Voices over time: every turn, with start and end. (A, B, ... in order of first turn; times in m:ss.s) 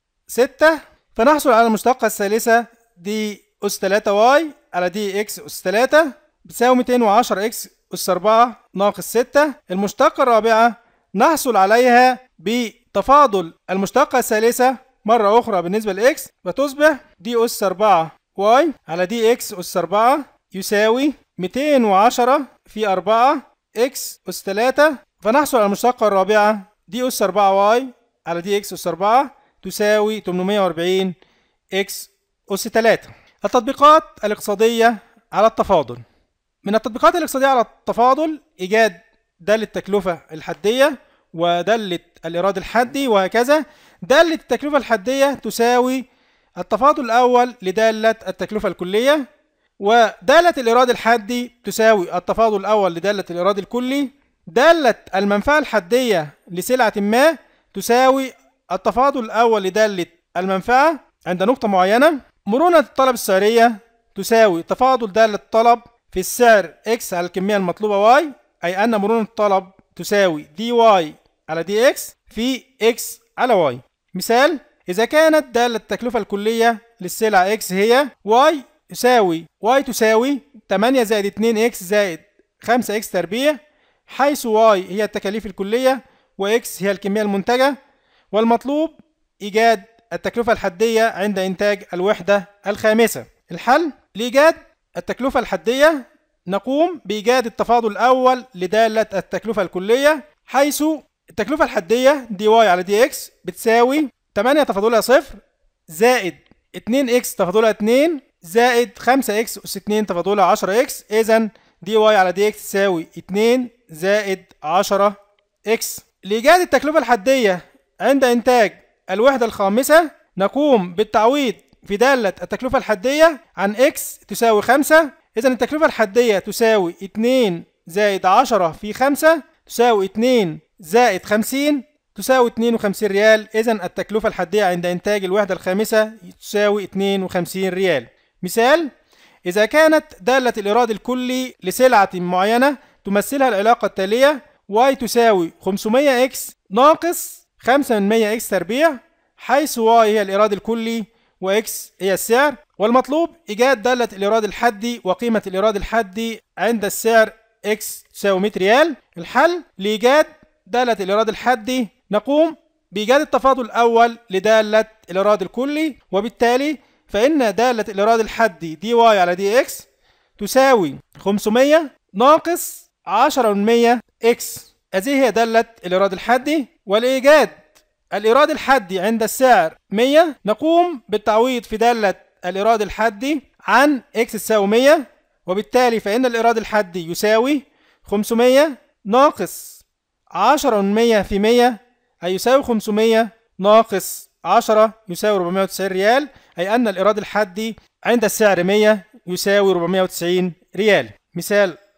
0:00.3-0:31.2 A
0:31.8-0:36.0 A
0:36.6-0:46.0 A
0:46.6-0:49.2 A
0:49.8-1:27.8 A
1:28.3-2:18.9 A
2:19.4-2:49.9 A
2:50.4-2:57.6 A
2:58.1-3:09.8 A
3:10.4-3:21.8 A